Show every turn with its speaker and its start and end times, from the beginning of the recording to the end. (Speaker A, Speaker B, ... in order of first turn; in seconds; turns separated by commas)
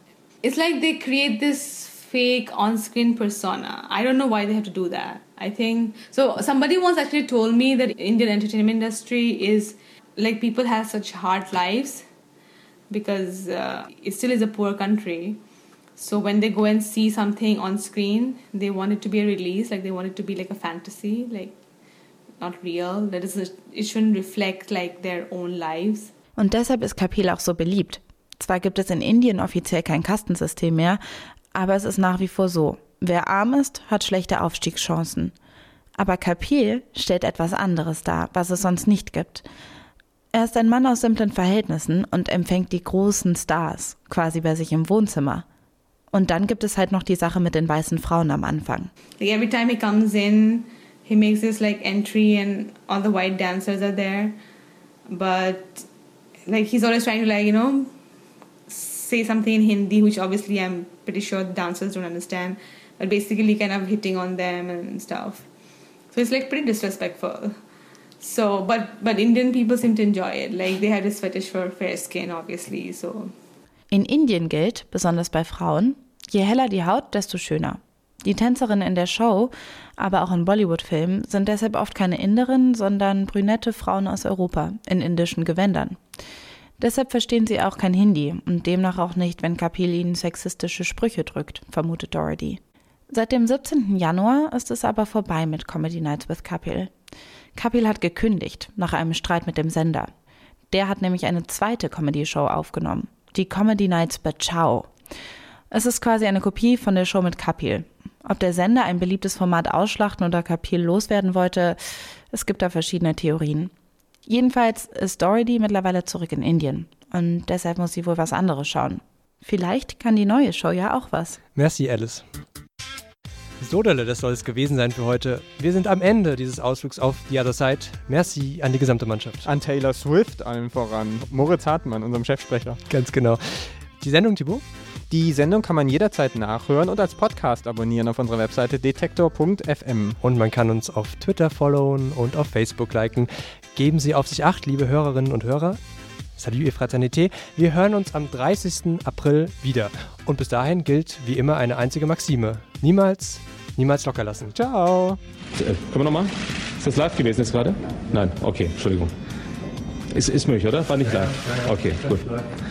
Speaker A: 0.4-12.1, Speaker A: 12.9-15.4, Speaker A: 16.0-21.6, Speaker A: 22.4-26.1, Speaker B: 26.4-31.0, Speaker B: 31.6-35.3, Speaker B: 36.0-39.5, Speaker B: 40.3-45.5, Speaker B: 46.1-48.9, Speaker A: 49.2-54.4, Speaker A: 55.1-55.9, Speaker A: 56.5-57.9, Speaker A: 58.7-65.5, Speaker A: 66.1-67.6, Speaker A: 68.2-73.3, Speaker B: 73.9-86.0, Speaker B: 86.8-96.9, Speaker B: 97.6-100.1, Speaker B: 100.7-104.9, Speaker B: 105.7-111.8, Speaker B: 112.3-113.7, Speaker B: 114.3-121.4, Speaker C: 121.5-122.2, Speaker C: 123.6-129.5, Speaker D: 129.4-132.8, Speaker C: 132.9-134.7, Speaker D: 135.1-140.2, Speaker C: 140.2-145.8, Speaker C: 146.4-154.6, Speaker D: 154.6-155.2, Speaker E: 155.6-159.1, Speaker E: 160.1-162.2